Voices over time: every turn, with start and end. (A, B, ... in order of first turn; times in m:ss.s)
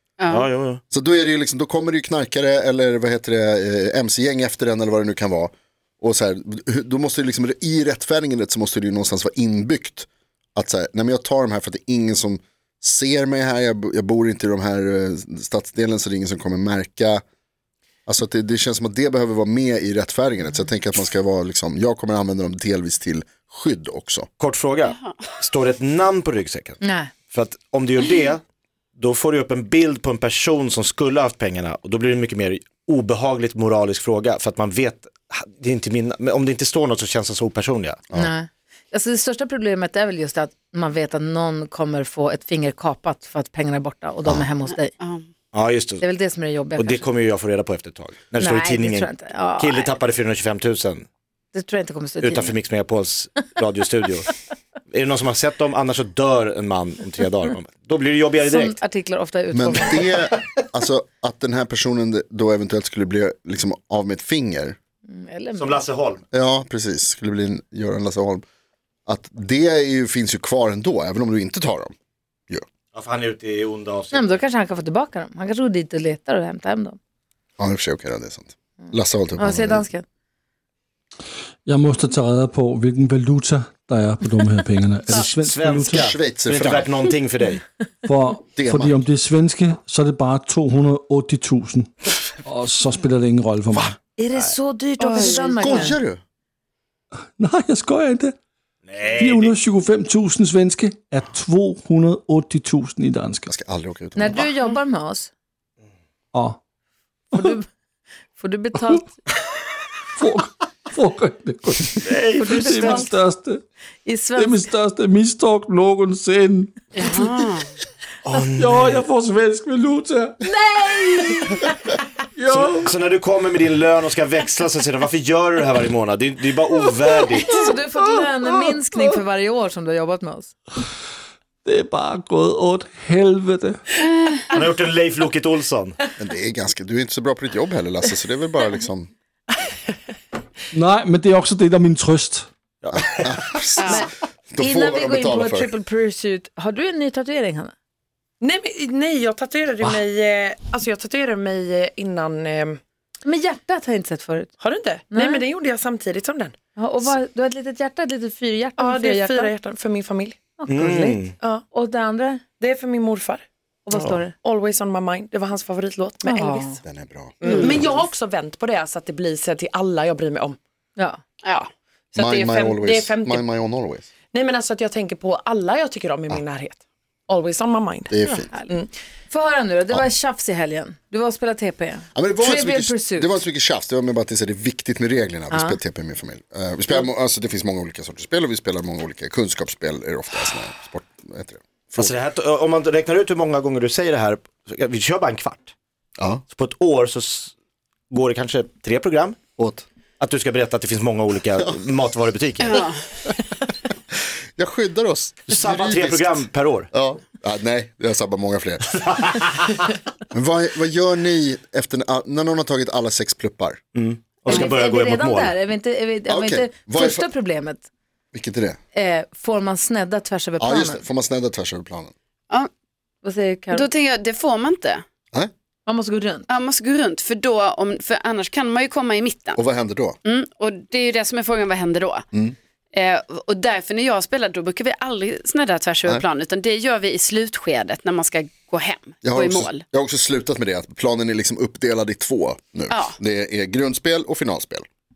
0:00.2-0:00.5 A
0:00.3-0:00.8 B
0:00.9-0:17.2 C
0:18.1-0:24.3 C
0:24.4-0:26.8 B
0:24.8-0:25.2 A
0:26.8-0:27.1 D
0:27.3-0:28.4 B
0:29.0-0:38.0 B
0:38.1-0:44.9 D
0:45.0-0:45.2 A
0:45.5-0:46.0 B
0:46.0-0:47.0 D
0:46.8-0:51.0 B
0:48.4-0:50.0 D
0:51.5-0:52.5 D
0:52.2-0:54.3 B
0:54.9-0:58.8 B
0:58.4-1:00.1 D
0:59.5-1:04.8 C
1:05.1-1:05.8 D
1:05.6-1:06.2 B
1:06.3-1:08.4 C
1:09.1-1:11.9 C
1:12.9-1:14.4 B
1:14.1-1:17.0 D
1:17.6-1:19.8 C
1:19.4-1:20.0 D
1:21.6-1:26.1 E
1:25.1-1:27.6 B
1:25.9-1:26.9 C
1:28.0-1:31.9 E
1:28.6-1:29.0 C
1:32.4-1:33.9 E
1:34.2-1:36.0 D
1:35.0-1:35.9 A
1:35.2-1:36.2 C
1:37.4-1:38.3 E
1:38.8-1:39.5 B
1:39.0-1:43.5 E
1:43.5-1:44.4 C
1:44.2-1:45.3 D
1:47.3-1:47.6 D
1:48.4-1:49.2 D
1:50.2-1:53.6 E
1:52.4-1:53.1 D
1:52.5-1:53.0 B
1:54.0-1:54.7 D
1:54.4-1:57.0 E
1:57.0-1:57.7 A
1:58.2-1:59.0 B
1:58.6-2:00.5 E
2:00.4-2:01.6 D
2:01.2-2:01.4 E
2:02.4-2:03.0 E
2:02.5-2:07.6 B
2:07.5-2:10.5 D
2:11.6-2:13.8 E
2:14.5-2:16.0 B
2:16.2-2:19.1 C
2:20.7-2:22.5 E
2:22.8-2:23.6 B
2:23.2-2:25.7 C
2:23.8-2:24.0 A
2:23.9-2:27.7 D
2:28.4-2:32.8 F
2:33.2-2:34.5 D
2:34.6-2:36.5 F
2:35.1-2:35.4 D
2:36.8-2:39.5 D
2:38.8-2:40.4 F
2:40.6-2:42.4 D
2:40.7-2:41.3 B
2:42.6-2:43.4 F
2:43.8-2:44.3 D
2:44.3-2:46.8 F
2:46.2-2:46.8 D
2:46.8-2:47.9 C
2:47.4-2:50.6 F
2:47.4-2:47.8 A
2:51.4-2:51.7 A
2:52.1-2:53.5 F
2:52.2-2:54.0 C
2:54.3-2:58.9 F
2:58.1-2:58.5 C
2:58.2-2:58.7 D
2:59.3-3:03.4 D
3:02.1-3:12.2 C
3:05.5-3:05.8 D
3:12.0-3:15.7 B
3:16.2-3:16.4 C
3:16.5-3:17.5 B
3:18.1-3:19.4 B
3:19.6-3:19.8 C
3:20.2-3:22.8 B
3:22.6-3:23.0 A
3:24.6-3:29.2 C
3:25.5-3:26.9 B
3:29.0-3:29.8 B
3:30.3-3:33.8 C
3:33.9-3:35.5 B
3:34.4-3:37.8 D
3:36.3-3:37.2 C
3:38.3-3:38.8 C
3:38.9-3:41.0 D
3:40.6-3:42.1 C
3:43.2-3:43.9 D
3:43.7-3:45.0 A
3:45.8-3:46.5 D
3:46.5-3:49.6 A
3:49.6-3:50.2 C
3:50.2-3:52.2 A
3:52.9-3:59.8 A
3:59.2-4:04.8 C
4:02.9-4:03.2 A